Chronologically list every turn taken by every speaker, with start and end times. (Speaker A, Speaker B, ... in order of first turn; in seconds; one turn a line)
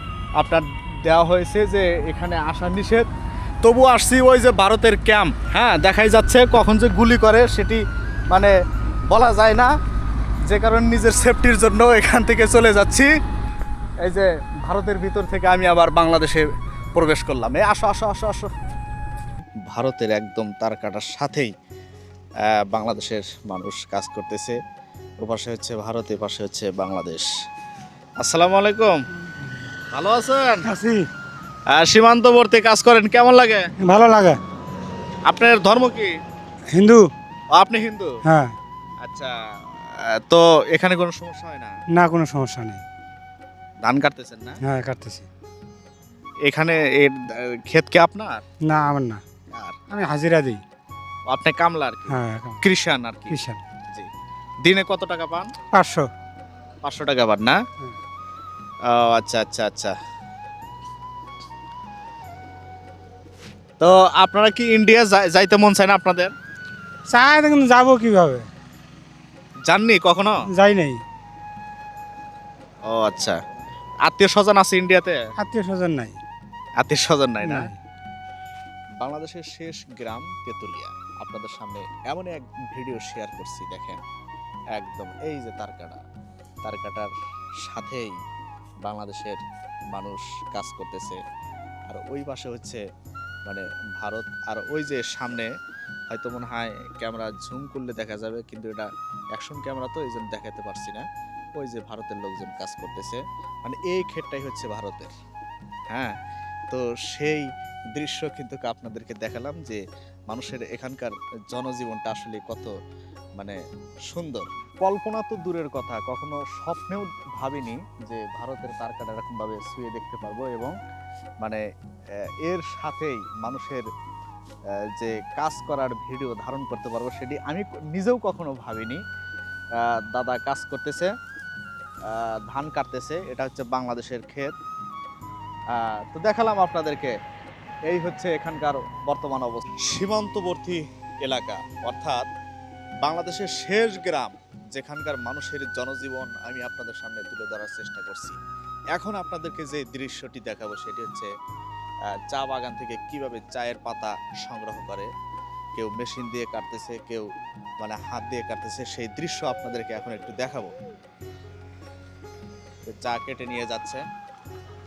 Speaker A: 0.4-3.1
Speaker A: 3.6-8.5
Speaker A: 9.1-9.7
Speaker A: 10.5-13.1
Speaker A: 14.0-18.5
Speaker A: 19.7-21.5
Speaker A: 22.7-24.6
Speaker A: 25.2-27.3
Speaker A: 28.2-28.9
Speaker A: 29.9-30.6
Speaker B: 30.6-31.1
Speaker A: 31.7-33.6
Speaker B: 33.8-34.4
Speaker A: 35.3-36.1
Speaker B: 36.7-37.0
Speaker A: 37.5-38.1
Speaker B: 38.2-38.5
Speaker A: 39.0-39.3
Speaker A: 40.2-41.7
Speaker B: 41.9-42.8
Speaker A: 43.8-44.6
Speaker B: 44.6-45.3
Speaker A: 46.5-47.1
Speaker A: 47.7-48.4
Speaker B: 48.6-49.2
Speaker B: 49.9-50.6
Speaker A: 51.3-53.4
Speaker B: 52.1-52.6
Speaker B: 53.3-53.6
Speaker A: 54.6-55.5
Speaker B: 55.7-56.1
Speaker A: 56.8-57.6
Speaker A: 58.9-59.9
Speaker A: 63.8-66.3
Speaker B: 67.1-68.5
Speaker A: 69.7-70.3
Speaker B: 70.5-71.0
Speaker A: 72.9-73.4
Speaker A: 74.0-75.2
Speaker B: 75.4-76.2
Speaker A: 76.8-77.7
Speaker B: 77.4-77.8
Speaker A: 79.0-84.0
Speaker A: 84.7-86.0
Speaker A: 86.6-87.1
Speaker A: 87.7-88.2
Speaker A: 88.8-89.4
Speaker A: 89.9-91.2
Speaker A: 91.9-92.8
Speaker A: 93.5-95.5
Speaker A: 96.1-101.0
Speaker A: 101.6-105.1
Speaker A: 106.7-112.7
Speaker A: 113.4-120.7
Speaker A: 122.4-123.8
Speaker A: 125.0-129.0
Speaker A: 130.1-131.1
Speaker A: 132.1-134.5
Speaker A: 135.7-137.1
Speaker A: 137.9-142.3
Speaker A: 143.0-148.4
Speaker A: 148.9-151.3
Speaker A: 152.3-155.1
Speaker A: 155.8-157.3
Speaker A: 157.8-160.7
Speaker A: 162.8-164.0